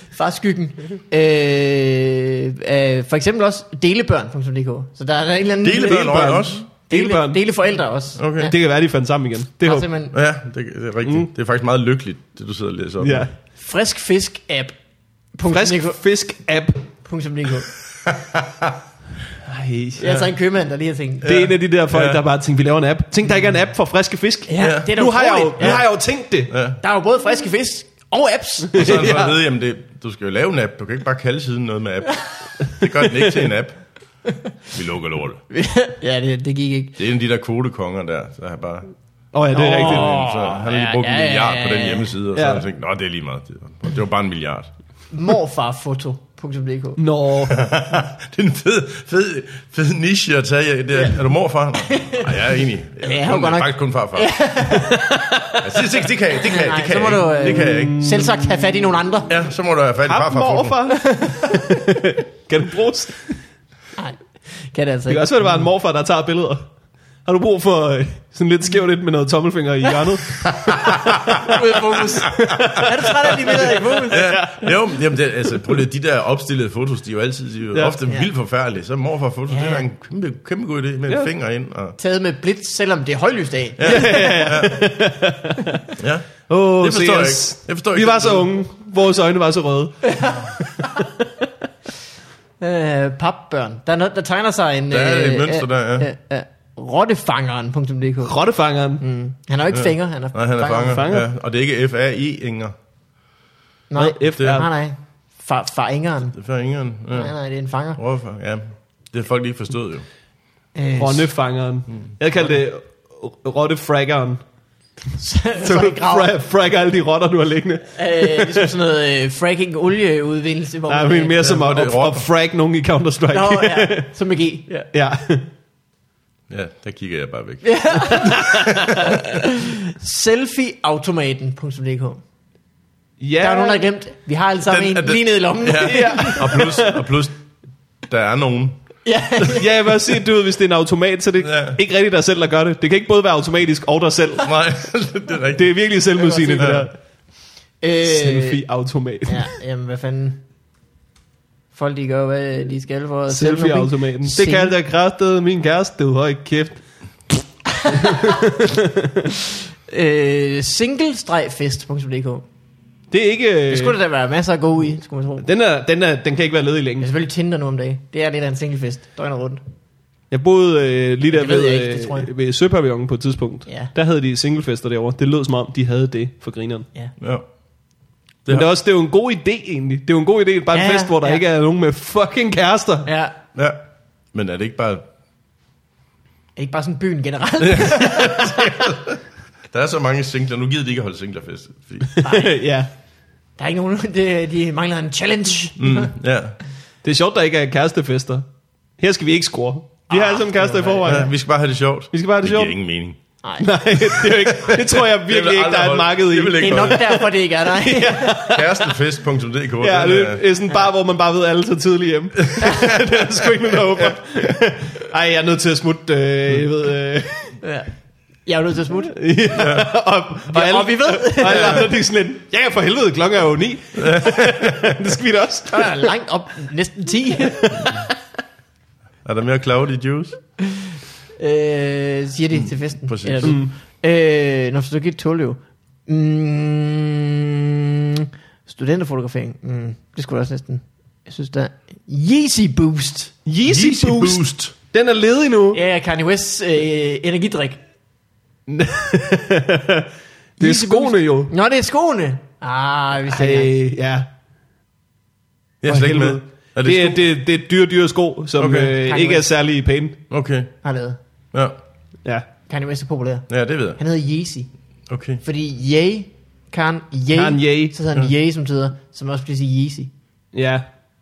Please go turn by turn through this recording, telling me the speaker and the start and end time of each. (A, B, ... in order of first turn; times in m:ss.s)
0:00.1-0:08.6 A
0:05.6-0:06.6 B
0:06.9-0:07.4 C
0:08.2-0:08.5 B
0:08.4-0:09.9 C
0:09.6-0:10.1 A
0:10.1-0:13.3 B
0:13.0-0:13.3 C
0:13.6-0:14.8 A
0:15.4-0:16.0 A
0:15.5-0:16.9 C
0:17.0-0:17.7 A
0:18.0-0:18.8 B
0:19.4-0:20.3 C
0:20.0-0:21.3 A
0:21.2-0:22.2 B
0:21.2-0:26.6 C
0:24.5-0:25.8 A
0:24.6-0:24.9 B
0:25.6-0:25.9 B
0:26.5-0:26.8 B
0:26.8-0:29.1 A
0:28.8-0:33.8 B
0:28.8-0:29.4 C
0:34.7-0:35.4 B
0:35.5-0:37.0 A
0:37.0-0:38.9 B
0:39.3-0:40.2 C
0:39.5-0:42.2 A
0:39.6-0:44.7 B
0:42.4-0:42.6 C
0:45.1-0:47.0 A
0:47.0-0:47.6 C
0:47.5-0:54.4 B
0:51.8-0:52.3 A
0:53.0-0:55.2 A
0:54.8-0:55.6 C
0:55.6-0:58.0 B
0:56.4-0:59.3 A
0:57.4-0:58.8 C
0:59.3-1:00.8 B
1:00.1-1:03.3 C
1:00.9-1:01.9 A
1:04.0-1:05.6 A
1:05.1-1:06.6 C
1:07.3-1:14.8 C
1:10.5-1:11.5 B
1:10.9-1:14.4 A
1:12.3-1:12.7 B
1:14.1-1:22.0 B
1:19.5-1:19.8 A
1:22.0-1:24.8 A
1:23.8-1:24.8 B
1:23.8-1:25.8 C
1:26.0-1:28.5 B
1:26.5-1:31.2 C
1:30.1-1:30.5 A
1:32.6-1:38.4 A
1:34.9-1:36.1 B
1:38.2-1:39.0 C
1:39.0-1:41.1 A
1:39.7-1:42.7 B
1:40.9-1:41.3 C
1:43.9-1:46.4 A
1:44.0-1:44.7 C
1:46.4-1:47.3 B
1:47.1-1:48.0 A
1:48.0-1:50.0 B
1:50.8-1:51.3 A
1:51.0-1:54.4 C
1:55.2-1:56.3 A
1:55.6-1:58.7 C
1:57.9-2:01.4 A
2:00.9-2:04.1 C
2:01.4-2:02.3 B
2:03.3-2:04.9 A
2:04.9-2:05.5 C
2:06.5-2:07.9 B
2:07.6-2:12.2 A
2:08.1-2:09.0 C
2:08.4-2:09.2 B
2:13.2-2:13.8 C
2:13.4-2:16.6 A
2:14.7-2:17.4 B
2:15.8-2:17.0 C
2:18.1-2:18.8 B
2:19.0-2:19.7 A
2:19.5-2:24.6 C
2:21.4-2:21.8 B
2:24.4-2:25.8 B
2:25.6-2:26.9 C
2:26.2-2:26.9 A
2:26.6-2:26.9 B
2:27.8-2:28.6 A
2:28.0-2:29.5 C
2:29.3-2:30.4 A
2:31.7-2:34.7 A
2:33.3-2:39.2 C
2:37.7-2:38.4 A
2:39.9-2:42.4 A
2:43.1-2:44.0 C
2:43.7-2:45.5 A
2:45.4-2:47.1 C
2:47.0-2:49.6 A
2:50.3-2:56.9 C
2:51.3-2:52.3 A
2:53.7-2:53.9 A
2:57.2-2:57.4 B
2:58.4-2:58.7 B
2:58.5-3:03.1 C
3:00.7-3:01.4 A
3:03.1-3:03.4 A
3:04.3-3:05.1 B
3:06.6-3:08.7 A
3:07.6-3:09.2 B
3:09.7-3:12.1 B
3:12.2-3:12.9 C
3:12.2-3:12.5 A
3:13.6-3:16.1 A
3:15.8-3:16.6 B
3:17.0-3:18.4 C
3:19.0-3:21.3 C
3:20.1-3:21.3 A
3:21.0-3:23.2 B
3:22.1-3:22.8 C
3:23.4-3:23.7 A
3:23.6-3:28.9 C
3:24.3-3:27.0 B
3:26.6-3:28.4 A
3:28.4-3:30.4 B
3:29.8-3:37.6 C
3:32.6-3:34.1 B
3:37.6-3:37.9 A
3:38.4-3:39.2 A
3:39.1-3:46.1 C
3:39.5-3:39.9 B
3:40.5-3:41.9 A
3:44.0-3:45.0 B
3:45.7-3:48.0 A
3:47.6-3:48.0 C
3:49.2-3:50.4 B
3:51.4-4:03.4 A
3:52.5-3:53.6 B
3:53.4-3:53.7 C
4:03.5-4:05.8 C
4:03.6-4:04.8 B
4:05.7-4:07.8 A
4:08.7-4:11.5 C
4:10.6-4:13.7 A
4:13.3-4:14.3 C
4:15.8-4:17.2 B
4:15.8-4:20.2 C
4:18.6-4:18.9 B
4:19.0-4:19.5 A
4:20.3-4:20.7 B
4:20.8-4:21.2 A
4:22.7-4:24.7 A
4:23.5-4:24.0 B
4:25.1-4:25.4 B
4:25.4-4:30.1 A
4:27.3-4:28.0 C
4:30.5-4:30.9 C